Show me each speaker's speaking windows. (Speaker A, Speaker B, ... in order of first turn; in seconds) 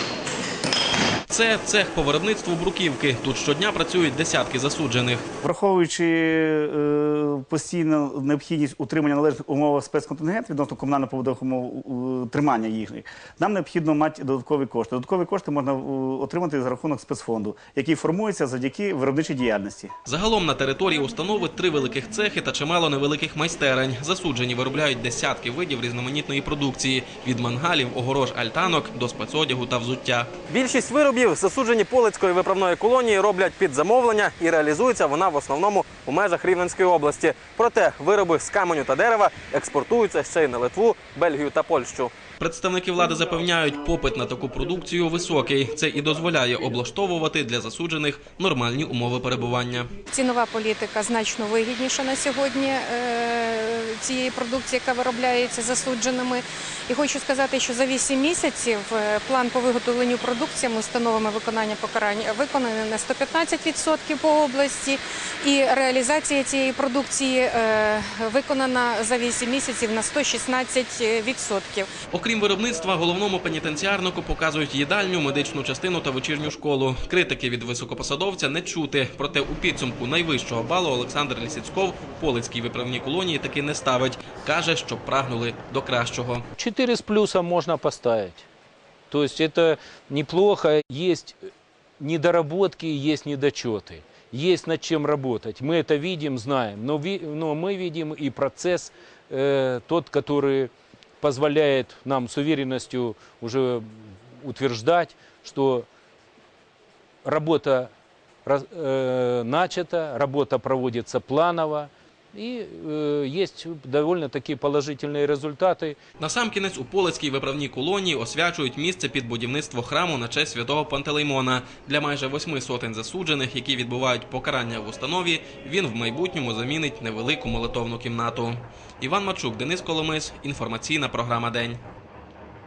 Speaker A: 1.3-5.2, 20.1-49.9, 72.1-86.5, 116.2-131.8
Speaker B: 5.4-19.9
Speaker C: 50.1-71.9
Speaker D: 86.6-88.5, 89.1-91.4, 92.0-105.9, 107.2-107.9, 108.4-116.0